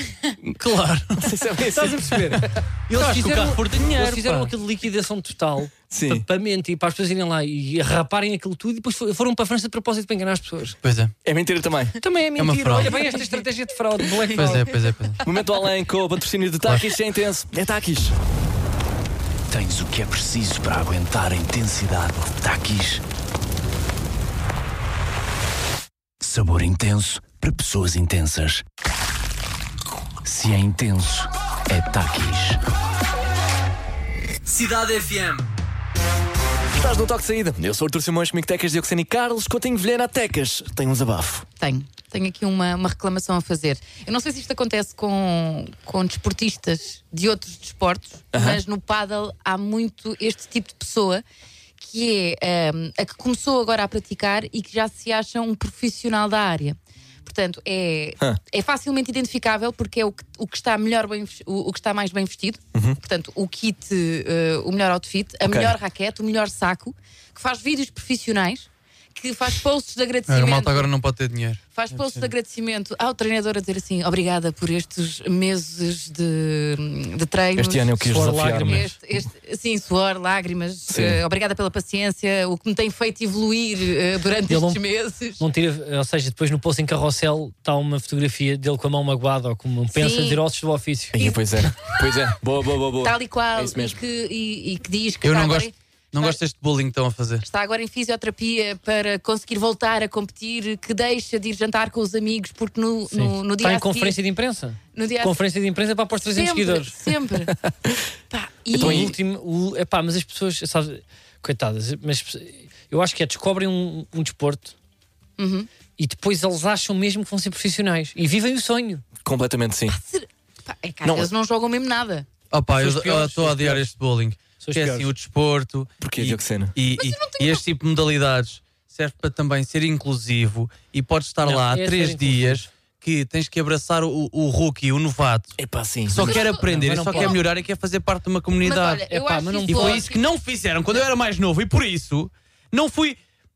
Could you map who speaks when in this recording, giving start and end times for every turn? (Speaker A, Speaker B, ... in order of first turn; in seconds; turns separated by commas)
Speaker A: 0.4-1.3, Speaker B: 1.2-2.4, Speaker C: 1.6-10.8, Speaker A: 2.9-4.5, Speaker B: 5.9-6.2, Speaker A: 10.8-11.1, Speaker B: 11.2-12.0, Speaker C: 12.0-14.7, Speaker A: 12.4-13.0, Speaker A: 14.3-15.2, Speaker B: 15.2-18.1, Speaker A: 16.6-16.9, Speaker D: 19.5-23.0, Speaker D: 26.2-28.6, Speaker D: 30.2-32.6, Speaker A: 34.5-35.4, Speaker B: 36.7-41.5, Speaker E: 41.6-51.2, Speaker B: 48.3-48.6, Speaker E: 51.8-70.9, Speaker B: 65.4-65.8, Speaker A: 70.3-72.3, Speaker E: 71.7-85.4, Speaker B: 77.5-78.9, Speaker C: 78.0-78.9, Speaker B: 80.9-81.2, Speaker C: 84.5-84.8, Speaker C: 85.4-91.2, Speaker E: 89.9-90.4, Speaker B: 91.1-94.0, Speaker E: 91.2-92.2, Speaker E: 93.0-96.4, Speaker A: 95.2-97.4, Speaker E: 97.4-104.2, Speaker C: 103.1-106.9, Speaker E: 104.9-105.4, Speaker E: 106.3-107.5, Speaker E: 108.3-109.1, Speaker B: 108.7-109.2, Speaker C: 108.7-114.8, Speaker E: 115.4-115.7, Speaker C: 116.0-119.0, Speaker B: 119.2-120.0, Speaker E: 119.9-122.3, Speaker B: 121.0-121.3, Speaker A: 122.5-135.5, Speaker C: 122.7-123.9, Speaker C: 124.6-125.1, Speaker B: 126.0-126.7, Speaker E: 127.0-127.6, Speaker C: 131.4-132.7, Speaker B: 135.6-136.4, Speaker A: 136.1-139.0, Speaker E: 136.2-137.4, Speaker C: 136.2-137.4, Speaker E: 138.6-140.2, Speaker C: 139.1-140.1, Speaker A: 139.7-143.2